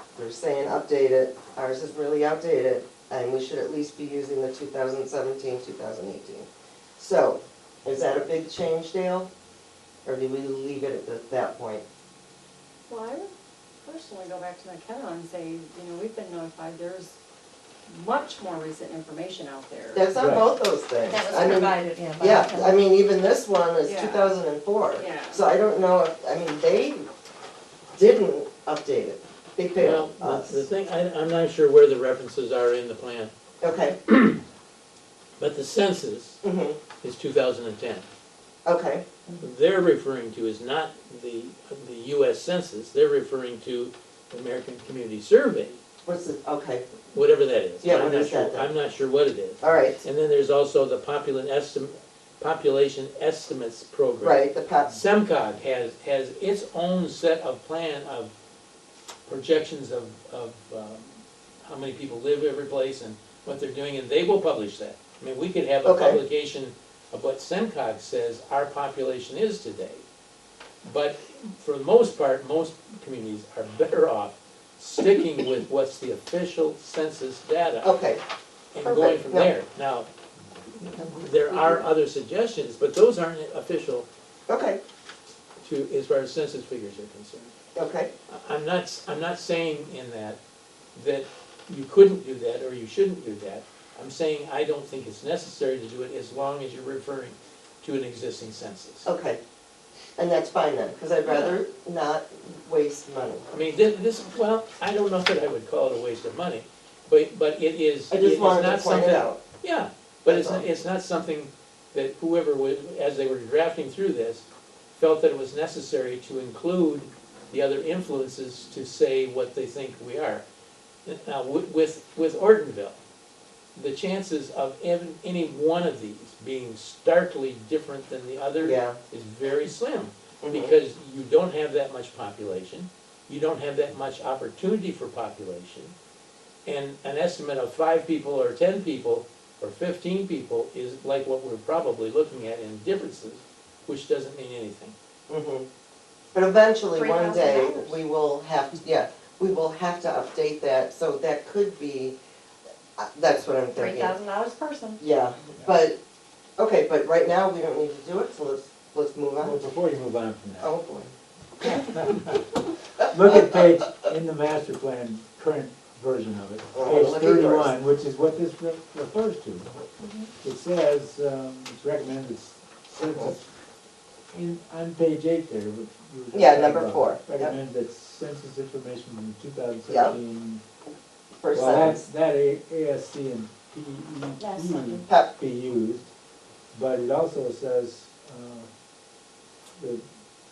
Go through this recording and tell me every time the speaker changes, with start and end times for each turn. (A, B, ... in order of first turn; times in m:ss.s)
0:00.2-0:09.3 A
0:10.0-0:11.8 A
0:12.9-0:13.3 B
0:13.8-0:17.2 B
0:17.9-0:20.0 B
0:19.9-0:27.1 A
0:20.1-0:20.4 C
0:21.0-0:22.8 D
0:23.8-0:24.3 B
0:25.0-0:25.4 B
0:28.0-0:30.6 A
0:29.8-0:33.3 E
0:33.6-0:34.0 A
0:34.1-0:34.4 E
0:35.4-0:36.4 E
0:36.4-0:36.8 A
0:37.0-0:38.0 E
0:38.6-0:39.0 A
0:39.4-0:45.8 E
0:46.0-0:46.8 A
0:47.1-0:58.3 E
0:47.8-0:48.7 A
0:49.6-0:50.0 A
0:54.2-0:55.0 A
0:59.3-1:01.1 E
1:01.6-1:10.0 E
1:05.8-1:06.2 A
1:10.8-1:17.9 E
1:17.8-1:18.2 A
1:18.7-1:20.1 E
1:18.8-1:19.5 A
1:20.9-1:21.8 A
1:21.1-1:24.1 E
1:24.5-1:24.8 A
1:25.6-1:27.5 E
1:27.8-1:28.1 A
1:28.3-1:30.4 E
1:30.9-1:39.1 E
1:39.0-1:39.4 A
1:40.2-1:43.5 A
1:41.3-1:41.6 E
1:43.5-2:00.4 E
1:48.1-1:49.4 A
1:50.3-1:50.7 A
2:01.1-2:03.0 E
2:03.8-2:15.9 E
2:08.6-2:09.0 A
2:10.4-2:10.8 A
2:16.7-2:24.9 E
2:25.3-2:25.7 A
2:26.3-2:32.2 A
2:26.9-2:28.0 D
2:33.0-2:34.1 A
2:33.8-2:35.0 D
2:35.0-2:36.0 A
2:36.6-2:39.6 A
2:39.4-2:40.7 C
2:40.6-2:42.1 A
2:41.6-2:49.7 C
2:43.0-2:43.5 A
2:46.7-2:47.7 A
2:50.0-2:50.3 D
2:50.4-2:53.5 C
2:53.0-2:53.3 A
2:54.3-3:00.6 C
2:56.3-2:57.5 A
2:59.9-3:00.1 A
3:01.4-3:02.0 A
3:01.5-3:06.1 C
3:04.4-3:05.1 D
3:05.1-3:05.3 A
3:06.7-3:08.7 C
3:09.8-3:10.0 C